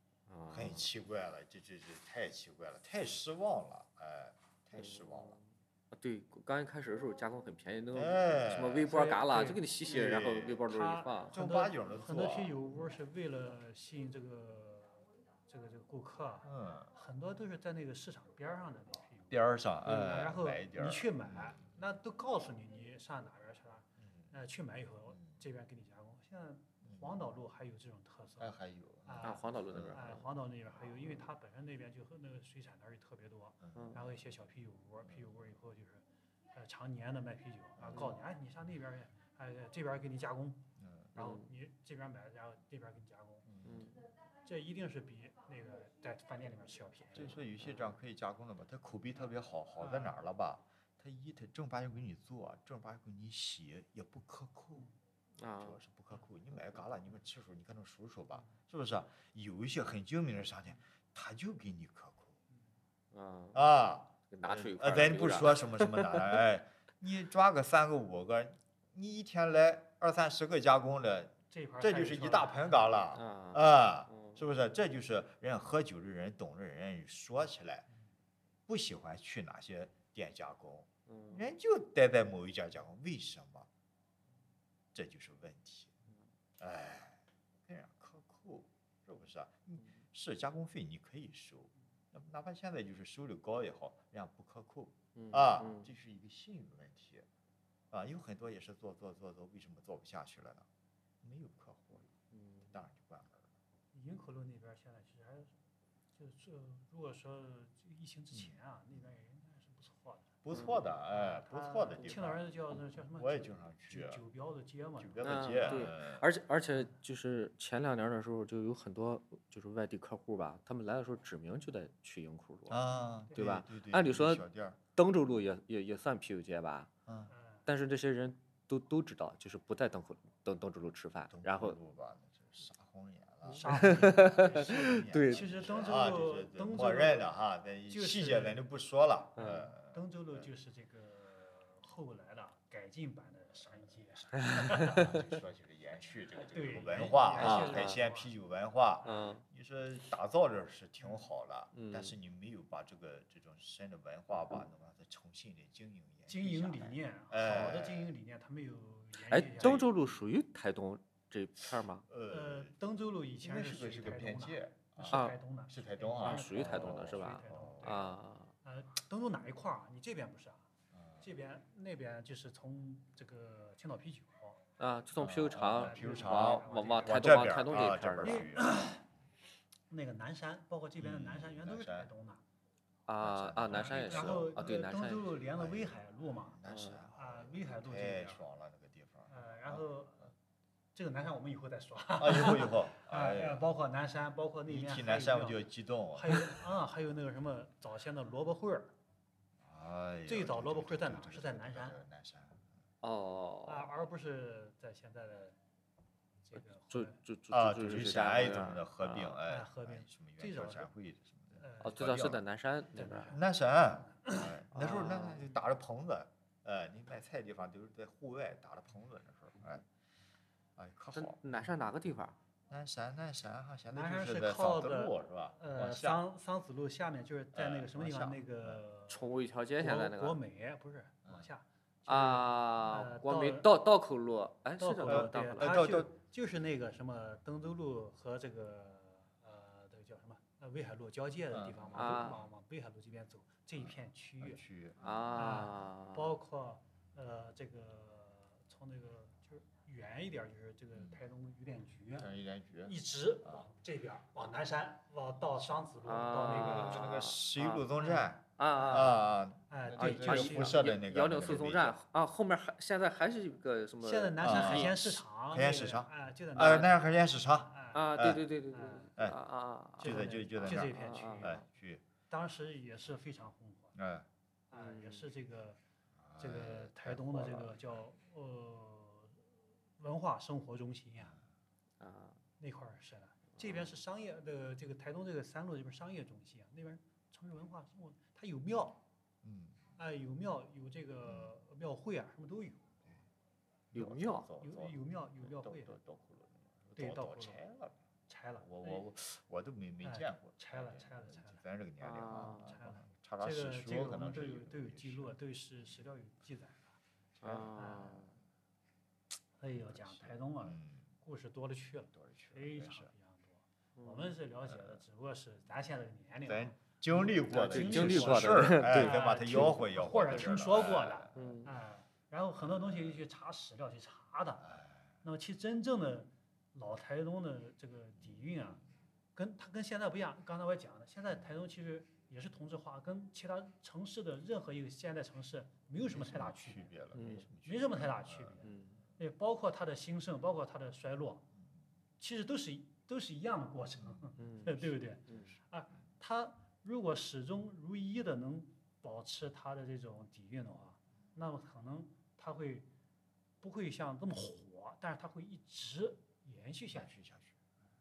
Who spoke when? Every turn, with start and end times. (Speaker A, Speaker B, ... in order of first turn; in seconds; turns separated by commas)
Speaker A: 0.3-0.9, Speaker B: 0.5-5.4, Speaker A: 4.7-11.3, Speaker B: 7.9-9.0, Speaker C: 8.9-9.6, Speaker B: 9.9-10.7, Speaker C: 10.7-43.5, Speaker B: 11.3-12.6, Speaker B: 16.4-16.9, Speaker B: 19.3-21.7, Speaker B: 24.0-24.3, Speaker B: 25.1-25.4, Speaker B: 26.8-27.2, Speaker B: 28.4-30.1, Speaker A: 29.2-30.2, Speaker B: 33.6-34.0, Speaker A: 33.8-34.0, Speaker B: 35.1-35.5, Speaker B: 37.8-38.2, Speaker B: 40.8-41.2, Speaker A: 41.2-41.5, Speaker B: 43.5-44.0, Speaker A: 43.6-44.0, Speaker C: 44.4-47.4, Speaker B: 47.1-54.9, Speaker C: 49.8-50.2, Speaker A: 55.4-55.8, Speaker B: 55.6-62.4, Speaker A: 63.1-63.6, Speaker B: 63.5-77.9, Speaker A: 64.3-66.4, Speaker C: 71.5-73.0, Speaker A: 73.1-74.4, Speaker B: 78.7-83.7, Speaker A: 81.1-81.4, Speaker B: 84.9-85.9, Speaker B: 86.6-97.3, Speaker A: 95.2-95.9, Speaker B: 97.9-100.7, Speaker B: 101.2-102.1, Speaker A: 102.3-102.7, Speaker B: 102.7-103.5, Speaker C: 103.9-105.5, Speaker C: 106.1-110.4, Speaker B: 108.3-109.0, Speaker B: 110.4-114.2, Speaker A: 110.5-110.8, Speaker C: 111.1-115.9, Speaker B: 115.0-116.3, Speaker A: 115.2-126.9, Speaker B: 122.7-124.8, Speaker C: 127.3-127.7, Speaker A: 127.7-131.8, Speaker B: 131.3-140.5, Speaker A: 133.5-135.6, Speaker C: 133.6-137.3, Speaker C: 137.9-138.6, Speaker A: 139.4-139.7, Speaker C: 139.5-145.1, Speaker A: 144.5-145.2, Speaker B: 144.7-158.2, Speaker C: 146.5-148.3, Speaker A: 147.4-148.0, Speaker C: 149.0-149.3, Speaker A: 149.0-149.4, Speaker A: 151.7-152.2, Speaker C: 156.3-159.9, Speaker A: 159.3-162.1, Speaker B: 159.6-160.0, Speaker B: 162.1-162.8, Speaker C: 162.3-170.7, Speaker B: 163.4-168.2, Speaker A: 165.1-165.4, Speaker A: 166.2-168.5, Speaker B: 170.9-171.3, Speaker C: 171.2-174.6, Speaker A: 174.8-178.5, Speaker B: 175.2-178.7, Speaker C: 175.7-177.6, Speaker C: 178.2-179.1, Speaker C: 179.9-182.4, Speaker B: 181.0-182.1, Speaker A: 183.1-185.3, Speaker B: 183.2-184.8, Speaker C: 183.7-186.6, Speaker B: 185.5-189.8, Speaker A: 186.7-187.1, Speaker C: 187.2-188.4, Speaker C: 189.3-190.3, Speaker C: 190.9-198.9, Speaker B: 192.2-193.6, Speaker B: 194.7-196.7, Speaker B: 199.6-202.6, Speaker C: 200.3-202.0, Speaker A: 203.0-203.9, Speaker C: 203.7-205.6, Speaker C: 206.4-207.2, Speaker A: 206.6-209.4, Speaker B: 207.5-212.4, Speaker C: 209.5-210.9, Speaker C: 211.6-212.0, Speaker A: 211.8-213.4, Speaker C: 212.9-213.4, Speaker B: 213.3-219.8, Speaker C: 214.0-214.5, Speaker A: 214.7-215.4, Speaker B: 220.8-221.7, Speaker A: 221.1-222.4, Speaker B: 222.7-226.2, Speaker C: 223.9-229.2, Speaker B: 227.5-228.8, Speaker A: 229.1-230.4, Speaker C: 229.8-233.7, Speaker A: 232.1-235.8, Speaker C: 234.8-244.6, Speaker B: 235.1-236.1, Speaker B: 241.5-242.4, Speaker A: 241.9-242.4, Speaker B: 243.8-245.9, Speaker A: 245.0-246.3, Speaker C: 245.3-252.3, Speaker B: 250.9-251.2, Speaker B: 252.2-253.7, Speaker C: 252.8-257.0, Speaker A: 256.0-257.9, Speaker B: 256.7-262.0, Speaker C: 258.0-259.2, Speaker A: 258.6-259.2, Speaker C: 259.7-260.9, Speaker A: 259.9-265.0, Speaker C: 264.0-267.0, Speaker B: 264.4-268.4, Speaker C: 267.7-268.1, Speaker A: 267.9-271.6, Speaker C: 268.7-269.1, Speaker B: 270.0-272.0, Speaker C: 270.0-271.6, Speaker C: 272.3-273.9, Speaker B: 273.9-274.3, Speaker C: 274.7-275.8, Speaker A: 274.7-275.3, Speaker B: 276.2-277.9, Speaker C: 276.4-279.4, Speaker C: 280.0-281.4, Speaker A: 282.0-282.4, Speaker C: 282.6-289.0, Speaker B: 283.7-283.9, Speaker B: 289.4-289.8, Speaker C: 290.0-292.9, Speaker B: 291.3-291.6, Speaker A: 293.9-294.5, Speaker B: 293.9-298.0, Speaker C: 294.6-296.0, Speaker C: 297.0-297.6, Speaker C: 298.3-299.1, Speaker B: 298.6-305.4, Speaker C: 300.0-301.6, Speaker A: 302.0-302.8, Speaker C: 302.6-307.0, Speaker B: 307.4-307.7, Speaker A: 307.4-308.3, Speaker C: 307.7-308.2, Speaker C: 309.6-328.8, Speaker B: 309.7-311.1, Speaker B: 312.1-313.1, Speaker A: 314.0-314.3, Speaker B: 314.7-315.0, Speaker B: 316.5-321.5, Speaker A: 317.5-319.8, Speaker A: 321.3-321.8, Speaker B: 322.6-323.2, Speaker B: 324.6-325.1, Speaker C: 329.4-341.5, Speaker B: 336.0-338.6, Speaker A: 337.1-337.5, Speaker A: 338.6-339.0, Speaker C: 342.2-352.9, Speaker B: 344.0-344.4, Speaker A: 344.4-345.5, Speaker B: 345.3-345.6, Speaker C: 353.6-357.2, Speaker B: 356.9-357.6